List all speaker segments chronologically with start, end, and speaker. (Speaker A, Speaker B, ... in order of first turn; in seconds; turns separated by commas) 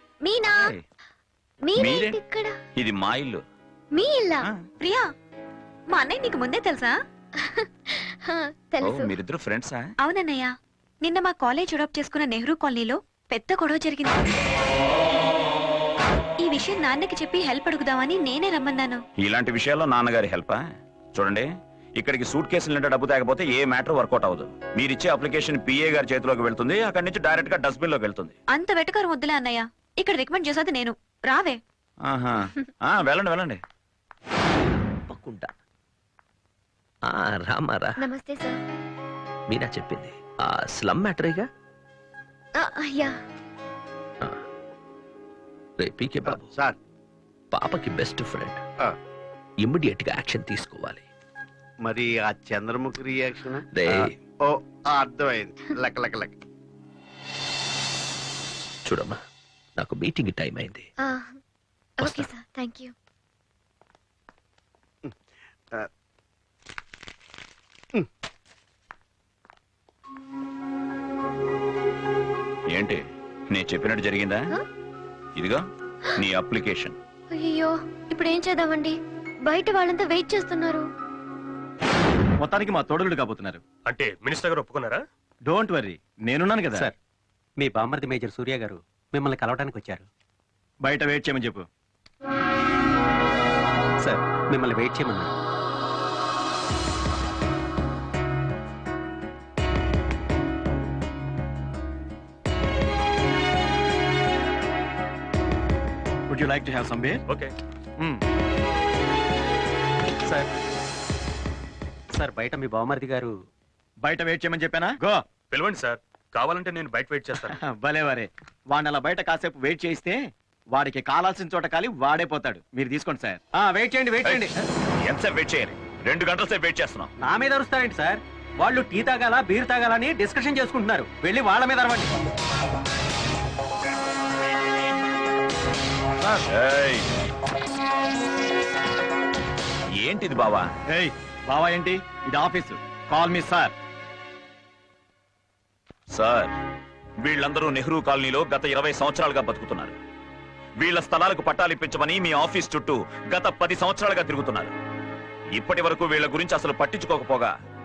Speaker A: 0.2-0.7, Speaker A: 1.6-2.5, Speaker B: 1.8-2.2, Speaker B: 2.8-3.4, Speaker A: 3.9-4.5, Speaker C: 4.8-5.1, Speaker C: 5.9-6.9, Speaker A: 7.4-9.2, Speaker B: 8.8-9.9, Speaker C: 10.0-14.2, Speaker C: 16.4-19.0, Speaker B: 19.2-20.6, Speaker B: 21.1-28.3, Speaker C: 28.5-31.6, Speaker B: 32.1-33.6, Speaker D: 35.0-35.5, Speaker D: 37.1-38.0, Speaker A: 38.0-38.6, Speaker D: 39.5-41.5, Speaker A: 42.6-43.2, Speaker D: 45.8-46.5, Speaker E: 46.3-46.8, Speaker D: 47.5-48.6, Speaker D: 49.6-51.0, Speaker E: 51.8-56.3, Speaker D: 53.7-54.1, Speaker D: 58.9-59.2, Speaker D: 59.8-60.9, Speaker A: 61.0-61.4, Speaker A: 62.0-62.9, Speaker D: 62.0-62.3, Speaker B: 72.7-73.0, Speaker B: 73.5-74.4, Speaker B: 75.4-75.6, Speaker B: 76.2-77.0, Speaker A: 77.3-79.0, Speaker A: 79.5-80.8, Speaker F: 82.4-83.6, Speaker G: 83.8-85.0, Speaker F: 85.5-86.9, Speaker H: 87.6-90.1, Speaker F: 90.8-91.6, Speaker H: 94.0-95.3, Speaker F: 106.3-107.2, Speaker G: 107.3-107.5, Speaker H: 112.2-113.3, Speaker F: 114.0-115.2, Speaker G: 115.5-117.6, Speaker F: 117.6-120.2, Speaker F: 120.7-123.4, Speaker H: 123.6-124.5, Speaker B: 124.2-124.5, Speaker B: 125.0-127.1, Speaker H: 127.2-132.1, Speaker B: 136.5-137.1, Speaker B: 140.0-140.7, Speaker F: 140.9-143.7, Speaker B: 146.1-146.5, Speaker B: 147.2-150.0, Speaker B: 150.8-154.7, Speaker B: 155.5-157.5